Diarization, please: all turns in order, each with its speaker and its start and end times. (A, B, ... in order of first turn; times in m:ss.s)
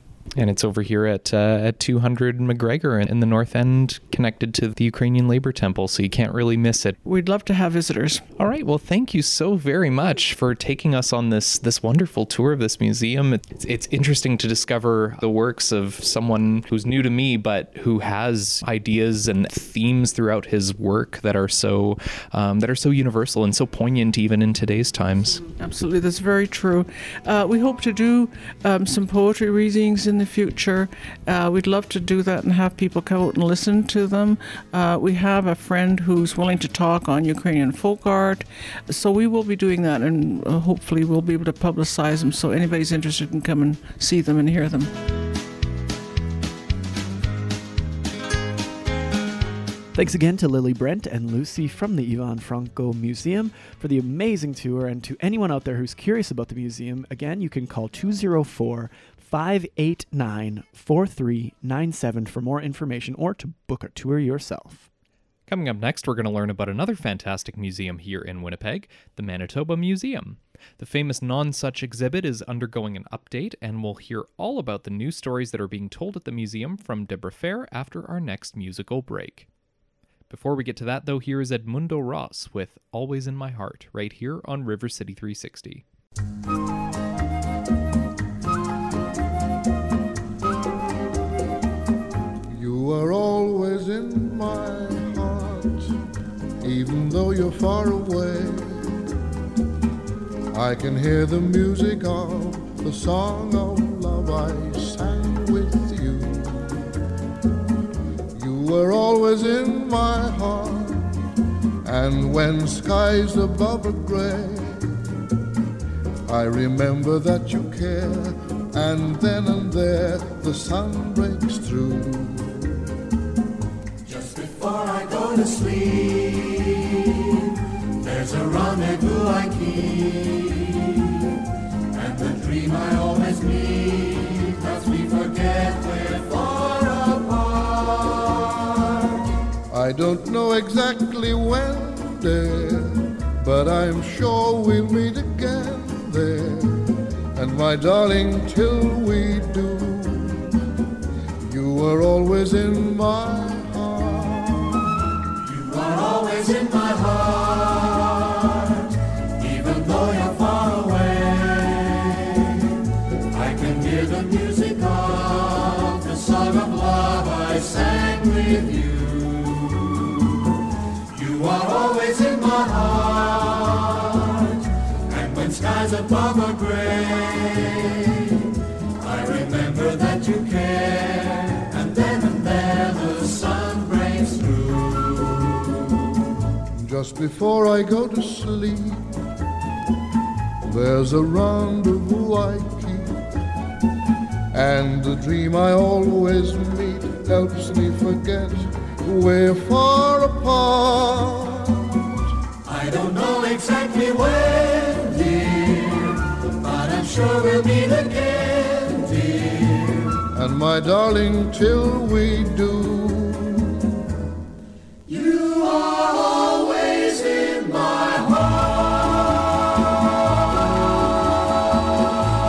0:00.4-0:07.0 A
0:07.0-0:08.2 B
0:08.4-0:25.4 A
0:25.5-0:44.9 B
0:49.9-1:04.9 C
1:05.5-1:19.5 A
1:20.3-1:25.8 A
1:32.5-1:35.9 D
1:36.6-1:38.9 D
1:40.5-1:46.8 D
1:48.4-1:51.1 D
1:51.8-1:55.0 D
1:56.3-2:02.6 D
2:04.0-2:11.2 E
2:11.9-2:18.6 E
2:19.7-2:30.4 D
2:31.4-2:34.8 D
2:35.4-2:38.7 E
2:39.4-2:42.5 E
2:43.3-2:50.1 E
2:51.1-2:58.4 E
2:59.0-3:05.6 E
3:06.8-3:09.1 D
3:10.7-3:13.2 D
3:14.5-3:22.1 D
3:22.6-3:30.2 E
3:30.3-3:33.9 D
3:35.1-3:39.4 E